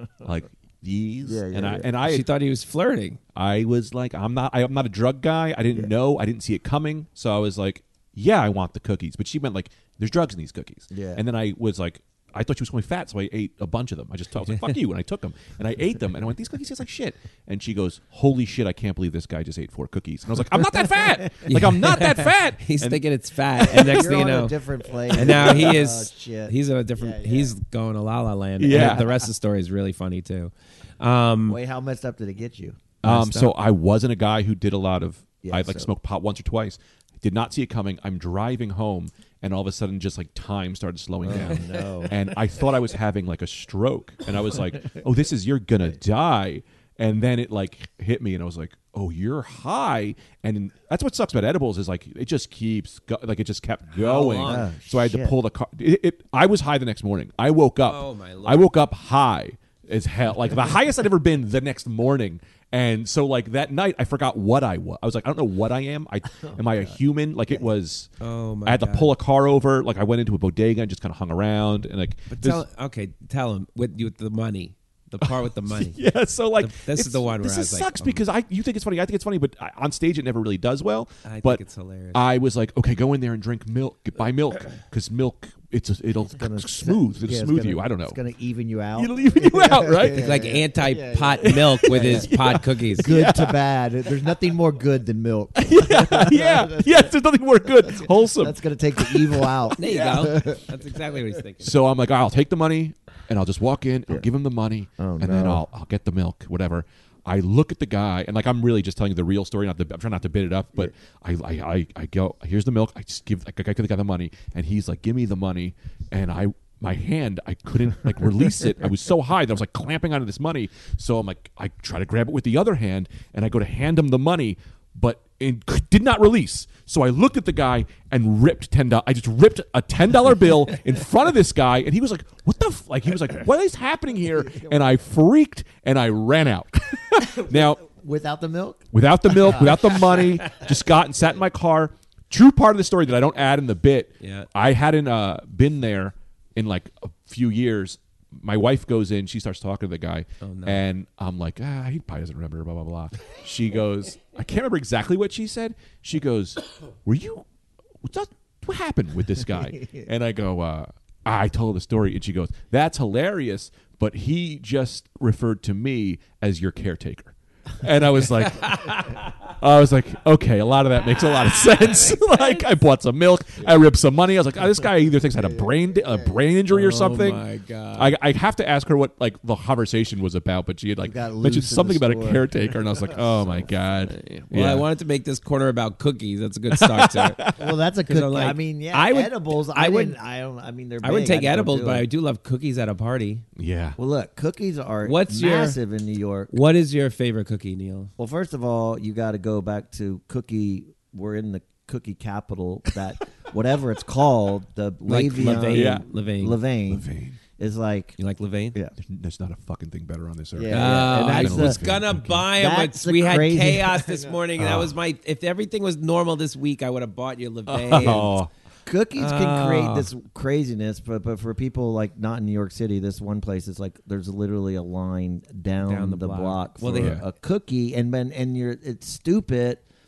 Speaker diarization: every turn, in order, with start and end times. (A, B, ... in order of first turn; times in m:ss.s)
0:00.2-0:02.3 A
0:01.2-0:01.9 B
0:02.0-0:03.2 C
0:03.3-0:23.0 A
0:10.9-0:11.2 B
0:21.5-0:24.6 C
0:23.6-0:24.0 A
0:23.7-0:27.6 B
0:25.1-0:31.6 C
0:25.2-0:25.6 A
0:28.6-0:29.1 A
0:28.7-0:29.1 B
0:31.5-0:32.8 B
0:33.0-1:08.1 A
0:33.0-0:33.5 C
0:35.4-0:35.9 B
0:41.2-0:42.2 B
0:41.3-0:41.8 C
0:53.9-0:54.7 C
0:54.4-0:55.4 B
0:57.8-0:58.7 C
1:06.4-1:07.0 B
1:08.2-1:09.1 C
1:08.6-1:12.6 A
1:12.3-1:16.0 C
1:15.3-1:28.2 A
1:16.6-1:18.2 C
1:21.2-1:22.2 C
1:26.3-1:32.3 B
1:29.0-1:30.4 A
1:30.2-1:33.1 C
1:31.5-1:33.6 A
1:33.0-1:37.1 B
1:35.6-1:39.8 A
1:37.6-1:40.7 B
1:39.8-1:41.7 C
1:41.6-2:17.8 A
1:45.0-1:45.6 B
2:14.4-2:14.7 B
2:17.2-2:20.2 B
2:18.9-2:37.4 A
2:24.2-2:24.5 C
2:30.4-2:30.8 C
2:38.0-2:57.4 A
2:48.4-2:49.3 C
2:51.5-2:52.6 C
2:55.4-2:56.4 B
2:56.7-2:58.1 C
2:58.0-3:04.9 A
3:01.0-3:03.6 B
3:04.1-3:07.4 C
3:06.7-3:07.8 A
3:07.6-3:12.1 B
3:08.1-3:10.2 C
3:11.0-3:13.4 C
3:13.6-3:14.0 A
3:14.0-3:16.6 B
3:15.0-3:15.8 C
3:16.5-3:18.1 C
3:18.2-3:27.1 B
3:25.1-3:26.6 C
3:25.6-3:26.1 A
3:26.9-3:27.4 A
3:27.6-3:28.2 B
3:28.2-3:28.8 C
3:29.0-3:32.5 A
3:30.6-3:31.8 B
3:30.7-3:38.4 C
3:32.5-3:34.4 B
3:34.6-3:34.9 A
3:37.7-3:38.5 A
3:37.9-3:38.3 B
3:38.9-3:49.8 B
3:39.2-3:40.1 C
3:45.8-3:47.2 C
3:46.9-3:47.2 A